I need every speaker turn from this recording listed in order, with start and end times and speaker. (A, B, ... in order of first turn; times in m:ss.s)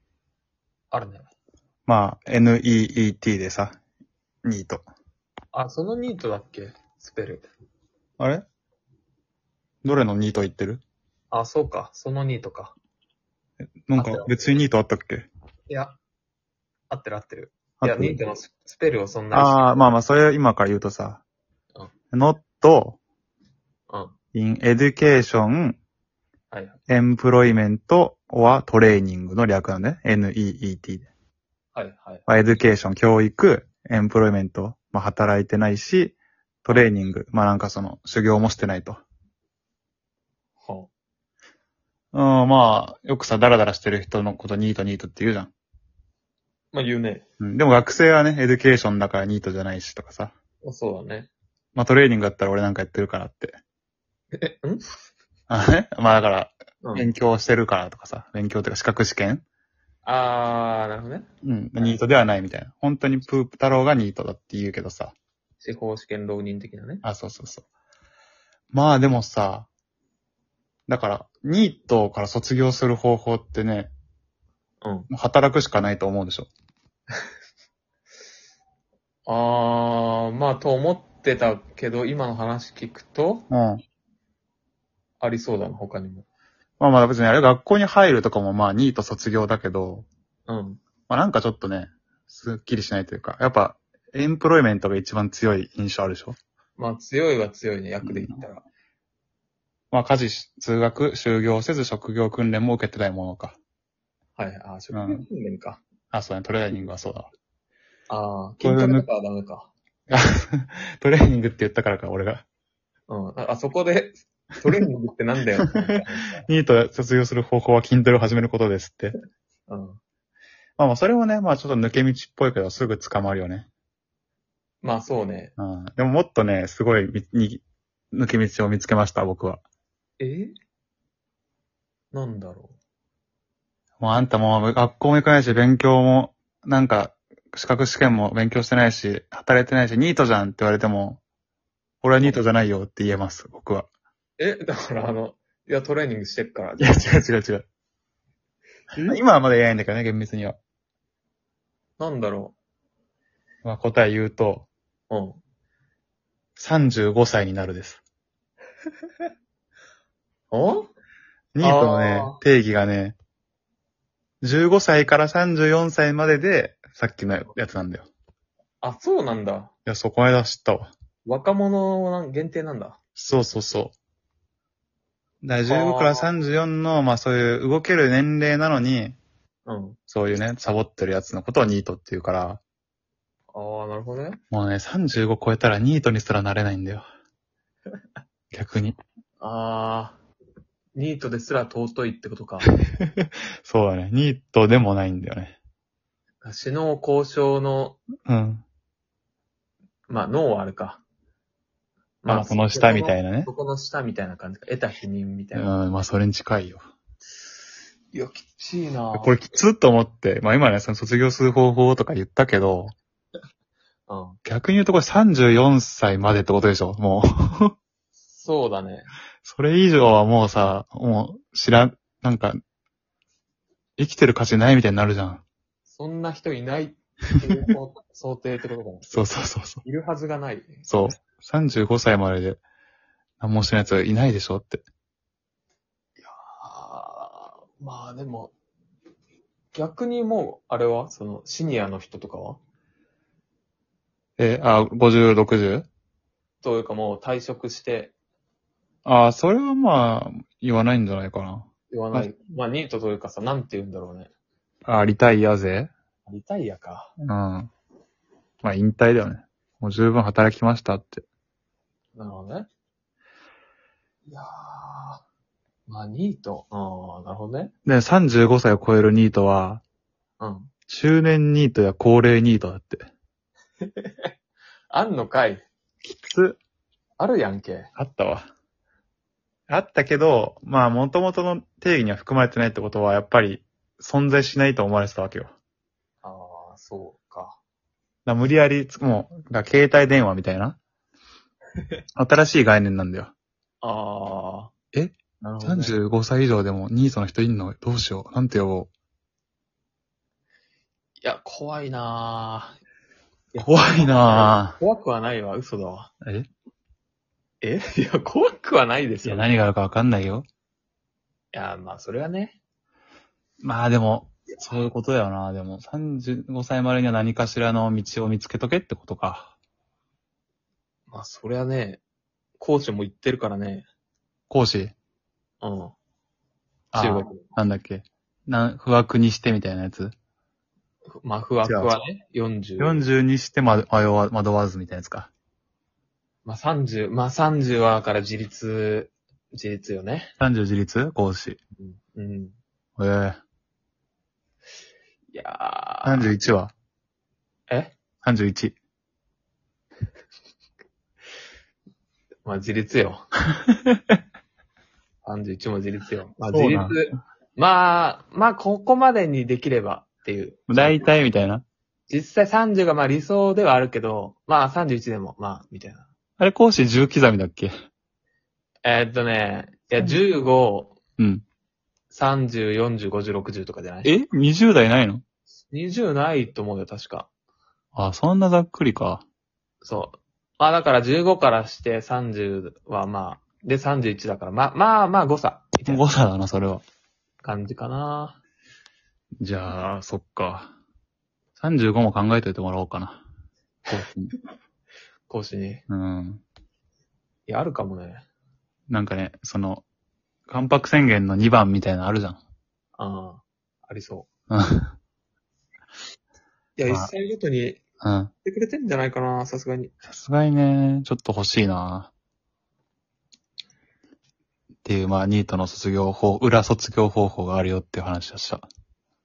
0:00.9-0:01.3 A
0:01.8-0:03.8 B
0:04.4-0:04.8 B
0:05.5-0:07.5 A
0:08.2-0:08.4 B
0:09.8-0:10.8 B
0:11.3-0:12.8 A
0:13.9-0:15.3 B
0:14.0-0:14.3 A
0:15.7-0:16.0 A
0:16.9-0:19.7 A
0:17.8-0:18.2 B
0:19.3-0:21.2 B
0:22.1-0:23.0 B
0:23.9-0:24.1 A
0:24.3-0:25.8 B
0:26.5-0:26.8 A
0:26.9-0:31.1 B
0:31.8-0:32.2 A
0:32.3-0:39.0 B
0:40.6-0:40.9 A
0:42.1-0:45.5 B
0:46.7-0:47.3 A
0:47.4-0:50.3 B
0:50.6-0:51.3 A
0:51.8-0:53.6 B
0:54.3-0:54.9 A
0:55.5-0:59.4 B
0:56.8-0:57.1 A
1:00.0-1:02.0 A
1:01.4-1:05.1 B
1:05.6-1:07.0 A
1:07.0-1:07.7 B
1:08.7-1:09.7 B
1:10.9-1:13.9 B
1:14.8-1:15.1 A
1:15.1-1:16.5 B
1:19.2-1:23.5 A
1:23.5-1:23.8 B
1:25.2-1:26.2 A
1:26.8-1:30.1 B
1:30.5-1:30.8 A
1:31.1-1:36.4 B
1:36.8-1:38.6 A
1:38.0-1:38.4 B
1:39.9-1:43.6 B
1:44.4-1:45.8 A
1:44.9-1:45.2 B
1:46.1-1:47.3 B
1:48.1-1:49.7 A
1:48.6-1:49.1 B
1:50.1-1:52.4 B
1:53.1-1:56.5 A
1:56.4-1:59.2 B
1:59.7-2:00.0 A
2:00.8-2:03.7 B
2:04.8-2:05.5 A
2:05.6-2:09.6 B
2:10.2-2:10.5 A
2:12.1-2:12.8 A
2:14.0-2:21.2 B
2:22.0-2:23.9 B
2:22.2-2:22.4 A
2:24.4-2:27.2 A
2:26.8-2:27.7 B
2:29.0-2:30.6 B
2:32.0-2:32.5 A
2:33.6-2:34.7 B
2:35.1-2:35.4 A
2:36.6-2:38.0 B
2:40.5-2:40.9 A
2:41.5-2:43.2 B
2:41.6-2:42.4 A
2:44.4-2:48.1 B
2:48.8-2:49.7 A
2:49.8-2:50.9 B
2:51.2-2:53.0 A
2:53.2-2:53.9 B
2:55.4-2:59.2 B
2:55.7-2:56.3 A
2:59.7-3:00.0 A
3:00.1-3:02.6 B
3:03.5-3:04.4 A
3:04.5-3:07.0 B
3:08.5-3:09.0 B
3:09.4-3:10.2 A
3:10.9-3:12.7 A
3:13.0-3:15.6 B
3:16.4-3:18.0 A
3:18.2-3:18.6 B
3:20.1-3:21.0 A
3:22.2-3:25.8 A
3:22.3-3:23.5 B
3:25.5-3:26.8 B
3:28.1-3:29.4 A
3:29.1-3:32.9 B
3:34.1-3:34.4 A
3:34.4-3:37.8 B
3:38.2-3:39.1 A
3:39.4-3:42.6 B
3:44.0-3:45.4 B
3:45.9-3:49.2 A
3:49.1-3:49.8 B
3:49.8-3:50.8 A
3:50.8-3:52.6 B
3:53.4-3:54.8 B
3:56.2-3:58.5 A
3:59.7-4:02.6 A
4:04.4-4:05.9 B
4:06.6-4:08.1 A
4:09.0-4:12.4 B
4:11.9-4:14.3 A
4:14.9-4:15.9 B
4:16.2-4:17.1 A
4:17.2-4:17.7 B
4:18.6-4:21.2 B
4:22.2-4:22.7 A
4:24.3-4:25.2 A
4:25.9-4:27.7 A
4:27.8-4:29.8 B
4:30.4-4:30.7 A
4:30.9-4:33.1 B
4:33.8-4:34.3 A
4:34.9-4:35.6 A
4:36.0-4:36.6 B
4:37.2-4:37.9 A
4:38.0-4:38.4 B
4:39.7-4:45.5 B
4:46.2-4:47.6 A
4:48.2-4:50.8 B
4:52.2-4:53.3 B
4:53.8-4:54.7 A
4:54.9-4:58.9 B
4:55.4-4:56.0 A
5:01.2-5:02.8 A
5:03.5-5:06.1 A
5:03.6-5:04.8 B
5:06.2-5:06.5 B
5:07.6-5:09.5 A
5:09.2-5:10.5 B
5:11.5-5:12.6 A
5:13.6-5:19.6 B
5:21.1-5:22.0 A
5:22.6-5:23.9 A
5:24.5-5:24.9 B
5:25.6-5:25.9 A
5:26.9-5:30.1 B
5:26.9-5:27.6 A
5:31.2-5:33.0 A
5:31.6-5:31.9 B
5:32.8-5:35.3 B
5:36.4-5:40.3 A
5:40.4-5:41.6 B
5:41.8-5:42.6 A
5:43.0-5:43.4 B
5:45.3-5:46.4 A
5:46.0-5:46.7 B
5:47.7-5:48.0 A
5:48.2-5:48.8 B
5:52.4-5:53.3 A
5:55.2-6:01.0 A
5:56.5-5:57.0 B
6:00.7-6:01.6 B
6:02.1-6:06.1 A
6:06.4-6:07.7 B
6:08.8-6:11.0 A
6:11.2-6:11.4 B
6:12.1-6:14.1 A
6:14.0-6:15.2 B
6:15.7-6:17.3 A
6:17.9-6:19.2 B
6:19.8-6:26.0 A
6:25.9-6:26.8 B
6:27.4-6:28.4 A
6:29.4-6:30.7 B
6:31.6-6:33.2 B
6:33.9-6:34.3 B
6:35.3-6:35.8 A
6:35.9-6:36.4 B
6:37.5-6:38.2 A
6:38.9-6:39.8 B
6:40.5-6:42.4 B
6:43.0-6:44.3 A
6:44.5-6:44.9 B
6:46.8-6:47.8 A
6:48.0-6:48.3 B
6:48.4-6:49.9 A
6:50.1-6:52.1 B
6:54.8-6:58.6 B